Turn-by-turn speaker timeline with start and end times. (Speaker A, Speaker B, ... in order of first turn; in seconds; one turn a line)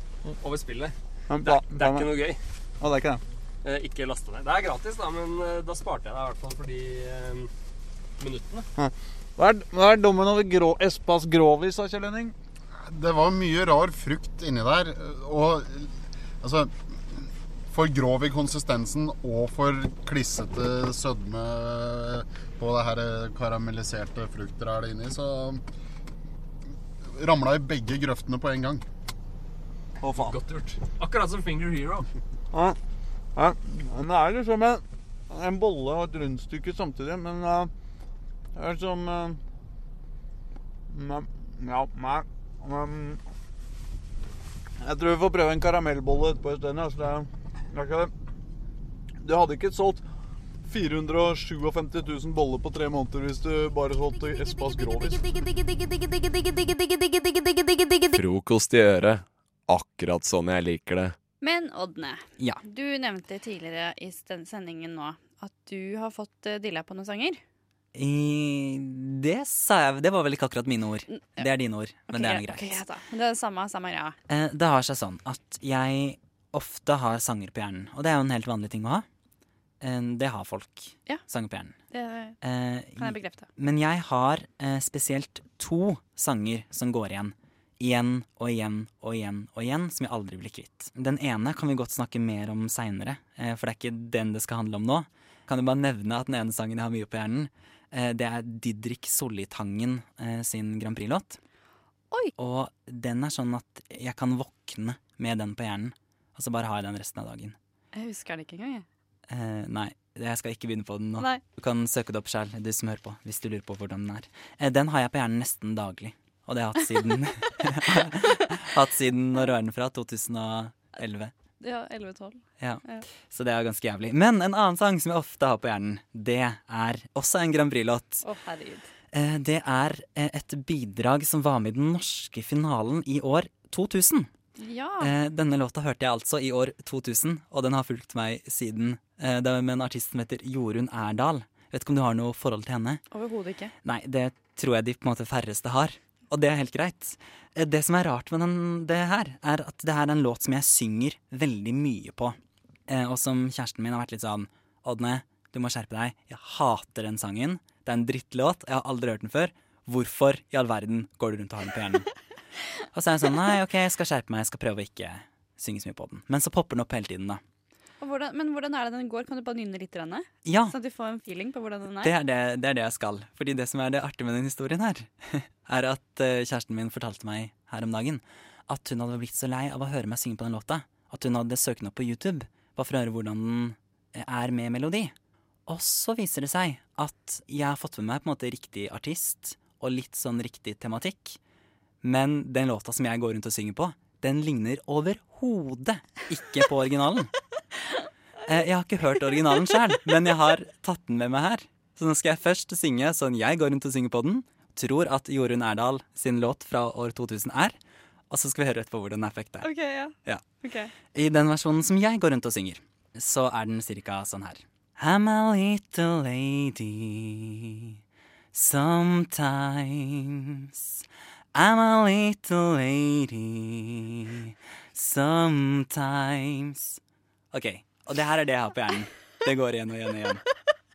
Speaker A: 0.4-2.4
Speaker B: 1.3-2.1
Speaker B: 2.8-3.2
Speaker A: 3.6-7.5
Speaker A: 8.2-8.7
Speaker B: 8.8-12.3
Speaker C: 12.8-25.6
Speaker C: 27.1-28.9
Speaker B: 30.0-30.4
Speaker A: 30.1-32.1
Speaker B: 32.5-32.8
Speaker B: 33.4-37.7
Speaker B: 38.5-39.4
Speaker B: 40.9-43.2
Speaker B: 44.8-48.1
Speaker B: 49.2-50.0
Speaker B: 50.7-55.4
Speaker D: 58.1-61.2
Speaker E: 61.4-67.4
Speaker F: 67.9-72.8
Speaker E: 72.1-74.2
Speaker F: 74.3-79.0
Speaker F: 79.8-81.8
Speaker E: 81.9-82.3
Speaker F: 82.4-101.4
Speaker E: 83.0-83.5
Speaker F: 102.4-107.6
Speaker E: 107.9-108.8
Speaker F: 109.3-121.3
Speaker E: 121.6-123.0
Speaker F: 122.6-128.3
Speaker E: 128.2-128.8
Speaker F: 129.1-134.3
Speaker E: 134.6-135.1
Speaker F: 135.0-143.0
Speaker E: 143.1-143.7
Speaker F: 143.8-152.4
Speaker F: 152.9-162.1
Speaker F: 162.9-167.4
Speaker E: 168.0-172.1
Speaker F: 170.4-170.8
Speaker F: 172.0-185.1
Speaker F: 185.7-191.4
Speaker F: 192.0-197.3
Speaker F: 198.5-207.8
Speaker F: 208.3-209.7
Speaker E: 209.6-210.9
Speaker F: 211.0-217.8
Speaker F: 218.5-221.0
Speaker F: 221.5-227.0
Speaker F: 227.5-230.4